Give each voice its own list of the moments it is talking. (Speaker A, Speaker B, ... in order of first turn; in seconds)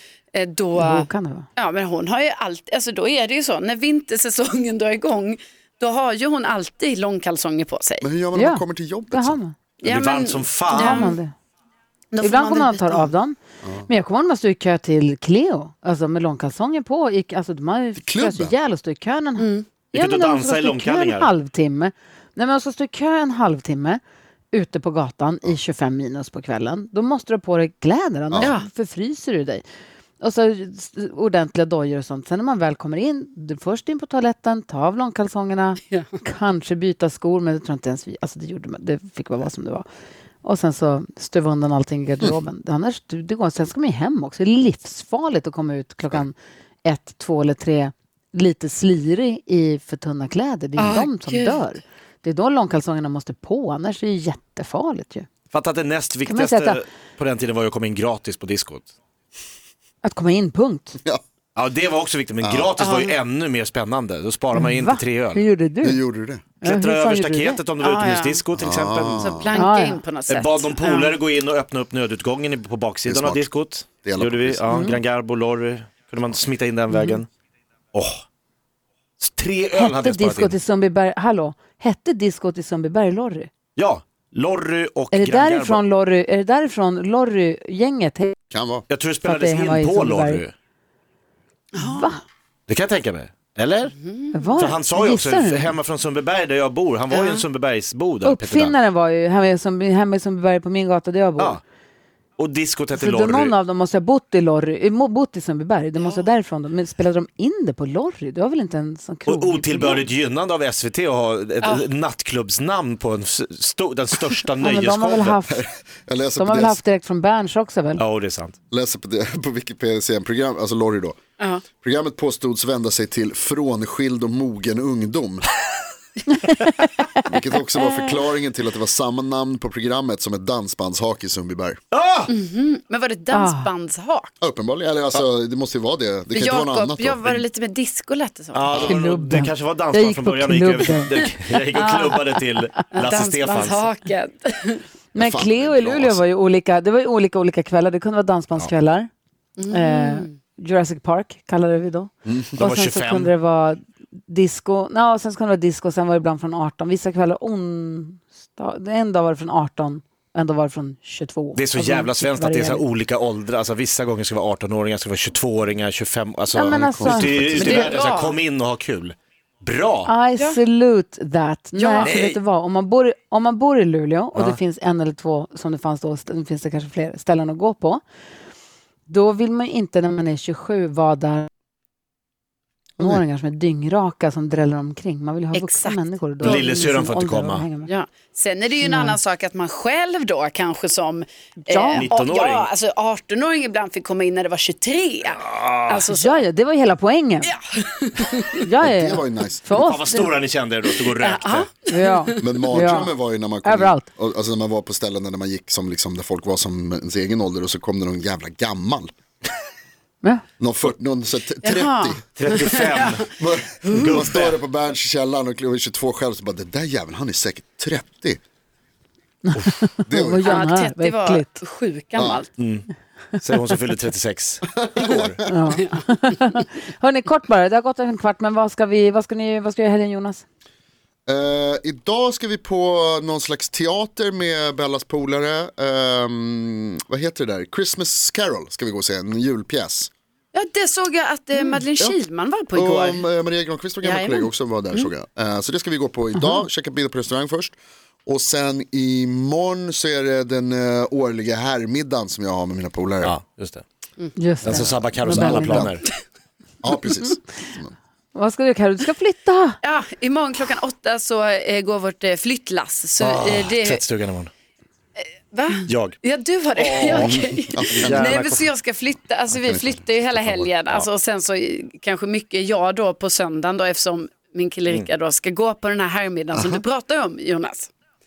Speaker A: 0.3-8.1, 9.8-11.2, 12.1-13.1, 19.4-19.7, 28.4-28.7, 50.8-51.6, 62.8-63.1, 67.8-68.4, 69.2-71.2, 91.8-92.1, 94.0-94.6, 97.1-97.4, 106.0-106.2, 121.4-121.6, 132.3-134.3, 136.3-138.7, 141.7-142.2, 142.9-144.8, 149.6-150.3, 167.5-168.4, 171.8-172.3, 185.5-186.6, 187.8-196.4, 197.4-198.6, 201.2-202.3, 211.6-213.2, 220.4-222.5, 240.5-243.2, 244.0-245.1, 259.8-264.0, 265.2-277.9
Speaker B: 0.8-1.5, 8.3-9.6, 10.7-11.3, 12.2-24.0, 24.5-29.6, 30.2-39.9, 40.4-55.3, 56.3-56.8, 60.0-61.0, 64.5-66.0, 66.6-67.6, 69.5-70.0, 74.7-75.0, 76.9-77.2, 79.8-83.5, 85.1-88.4, 89.2-90.4, 91.8-92.2, 94.3-95.7, 98.2-101.6, 102.9-110.0, 114.6-115.6, 116.4-118.0, 126.3-127.3, 133.3-133.7, 138.7-142.2, 145.1-149.1, 149.7-162.8, 166.5-168.0, 170.1-178.0, 179.1-181.5, 183.0-187.9, 188.8-189.2, 191.7-192.1, 196.1-197.5, 198.6-200.3, 201.9-204.1, 219.4-221.6, 225.5-230.4, 246.4-246.6, 254.4-255.9, 258.3-259.8
Speaker C: 8.0-9.4, 13.6-13.9, 18.0-18.6, 62.4-62.7, 65.8-66.4, 68.5-69.5, 73.1-73.5, 74.0-74.6, 88.5-88.9, 115.5-116.8, 118.7-121.2, 121.7-125.5, 127.2-131.8, 134.4-137.4, 145.2-146.2, 152.2-152.6, 166.7-167.4, 198.8-199.6, 202.4-209.1, 210.6-212.2, 213.3-218.4, 220.1-220.5, 222.2-222.4, 224.8-225.3, 231.3-240.1, 242.7-253.3, 254.6-256.0, 256.8-257.9, 267.1-268.4, 269.5-271.0, 276.5-276.8
Speaker D: 9.8-11.2, 19.9-21.3, 55.5-58.9, 61.6-65.4, 66.6-69.3, 70.3-77.3, 77.9-78.2, 79.2-80.5, 83.8-85.8, 88.9-90.5, 92.7-94.0, 94.6-98.7, 102.4-103.5, 109.3-115.4, 118.0-118.6, 131.9-132.3, 138.5-143.9, 152.6-153.3, 161.6-170.1, 172.0-172.4, 186.4-187.7, 191.9-192.7, 195.5-196.0, 199.8-201.7, 212.3-213.3, 213.9-214.5, 222.6-225.4, 253.2-253.8, 254.6-256.1, 263.2-264.5, 265.9-266.2, 266.8-267.3, 268.0-268.7